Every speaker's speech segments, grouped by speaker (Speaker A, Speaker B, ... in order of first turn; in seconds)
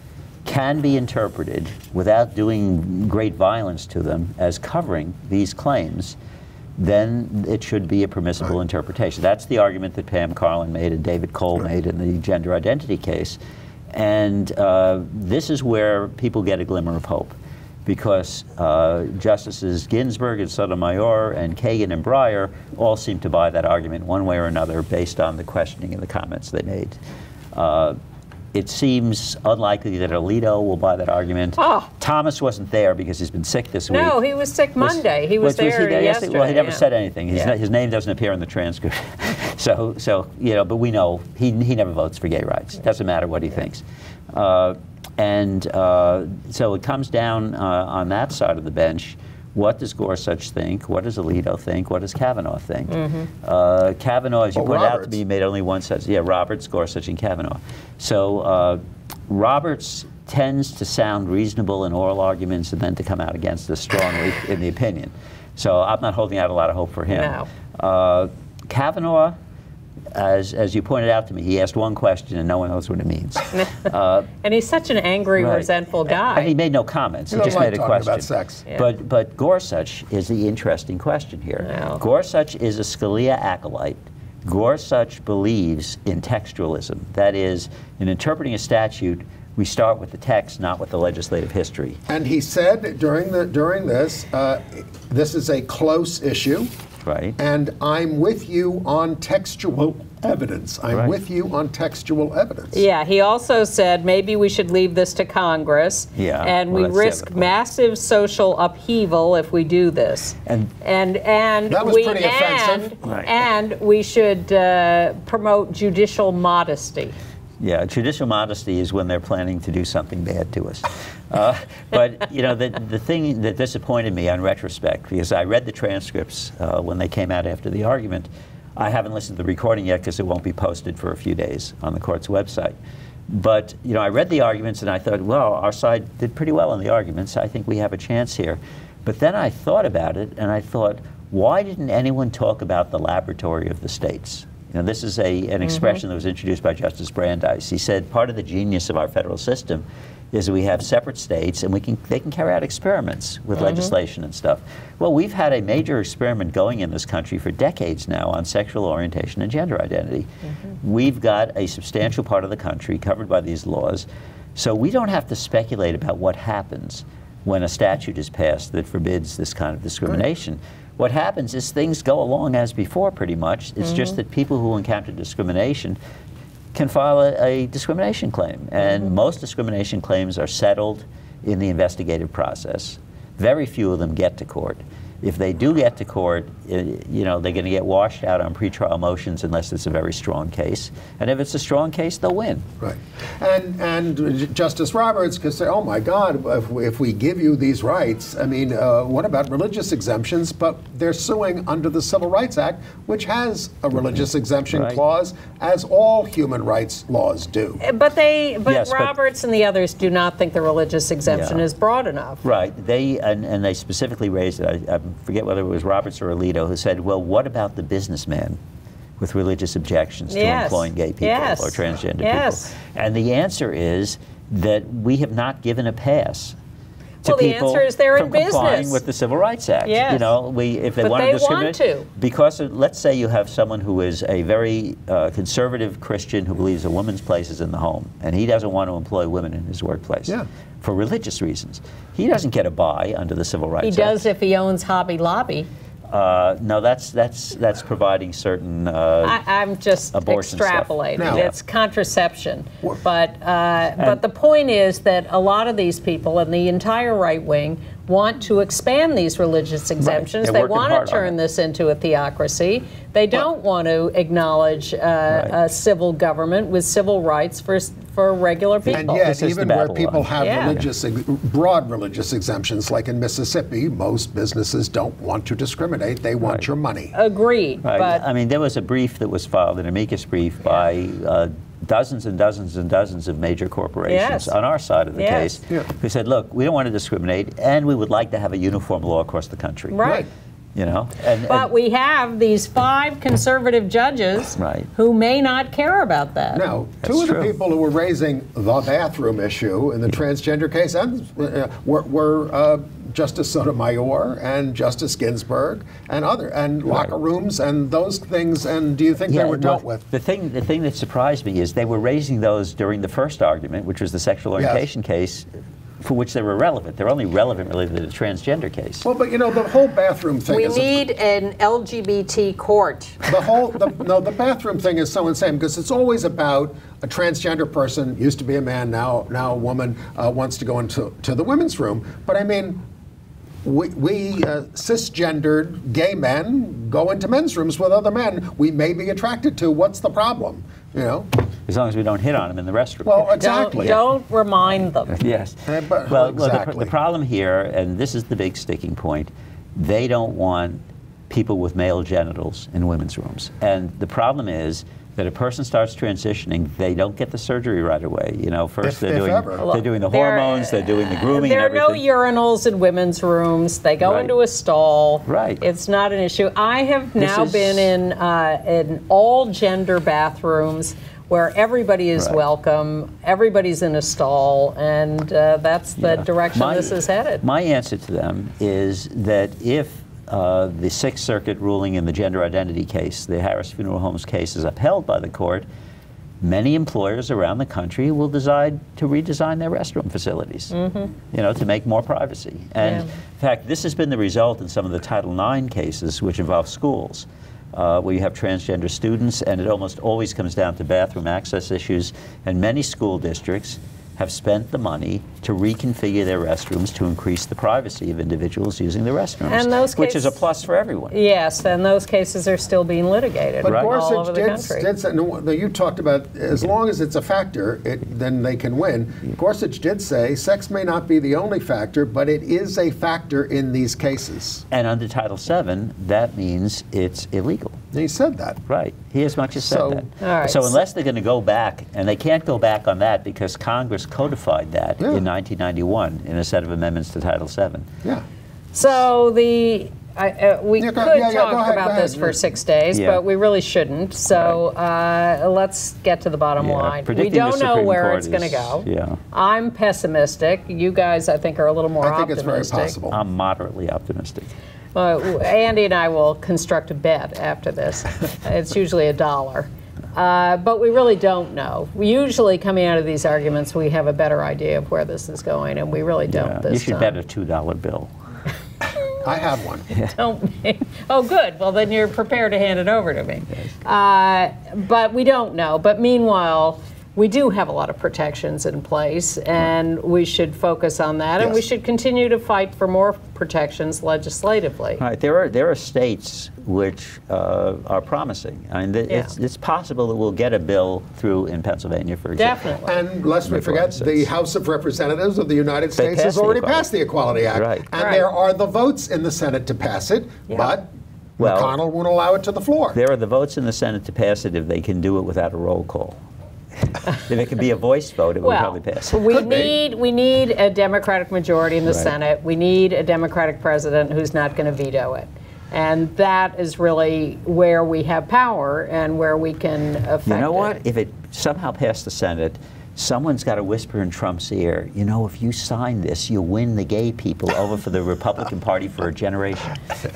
Speaker A: 0.4-6.2, 6.8-13.4, 13.9-17.3, 17.9-27.0, 27.5-28.0, 28.5-34.2, 34.8-69.4, 70.1-74.3, 75.4-75.7, 76.3-92.0, 97.0-97.4, 106.2-107.5, 110.5-110.7, 113.0-113.3, 117.6-132.7, 133.3-160.3, 160.8-176.0, 176.7-192.7, 204.7-205.0, 208.7-209.1, 211.3-211.6, 212.4-218.6, 219.2-226.6, 227.2-244.2, 246.1-249.4, 250.1-251.6, 260.0-261.4, 265.3-265.6, 268.9-270.8, 277.8-290.1, 290.7-291.7, 294.6-294.9, 297.0-297.5, 309.3-315.5, 316.0-319.1, 341.7-343.9, 345.1-362.0, 364.0-364.3, 365.2-365.6, 367.2-367.9, 376.0-385.6, 386.4-411.1, 413.6-413.9, 424.7-427.8, 428.7-437.9, 442.9-443.2, 446.6-449.2, 453.1-454.5, 466.3-468.1, 485.0-492.6, 493.4-494.3, 495.9-496.9, 497.5-497.9, 501.4-501.8, 502.9-506.2, 507.1-509.6, 511.9-512.1, 520.2-529.8
Speaker B: 31.6-31.9, 33.9-37.5, 52.9-53.3, 67.1-67.5, 73.5-73.8, 74.4-76.5, 81.6-82.0, 102.7-117.1, 145.7-146.0, 153.6-153.9, 207.8-212.4, 220.3-222.8, 227.2-229.0, 229.8-230.3, 231.0-232.1, 243.8-245.7, 249.2-269.1, 270.4-270.8, 277.1-278.2, 284.1-284.5, 285.1-285.5, 289.9-290.3, 291.5-296.6, 320.5-323.2, 343.4-345.2, 359.6-377.4, 390.7-391.1, 392.8-393.1, 409.5-410.3, 411.1-414.9, 430.2-430.8, 438.7-452.9, 454.9-467.1, 470.1-485.0, 492.4-493.0, 498.0-498.2, 508.4-520.7
Speaker C: 54.5-55.2, 77.3-78.6, 92.1-96.7, 97.4-102.8, 111.7-112.9, 192.8-207.8, 251.2-251.5, 268.9-277.1, 296.5-310.0, 314.6-314.8, 319.0-321.0, 323.3-332.8, 333.6-341.3, 343.1-344.0, 345.7-346.9, 358.8-359.6, 413.6-424.6, 427.9-428.6, 429.6-430.0, 440.8-442.4, 452.0-453.2, 469.2-469.9, 492.8-503.0, 509.3-509.7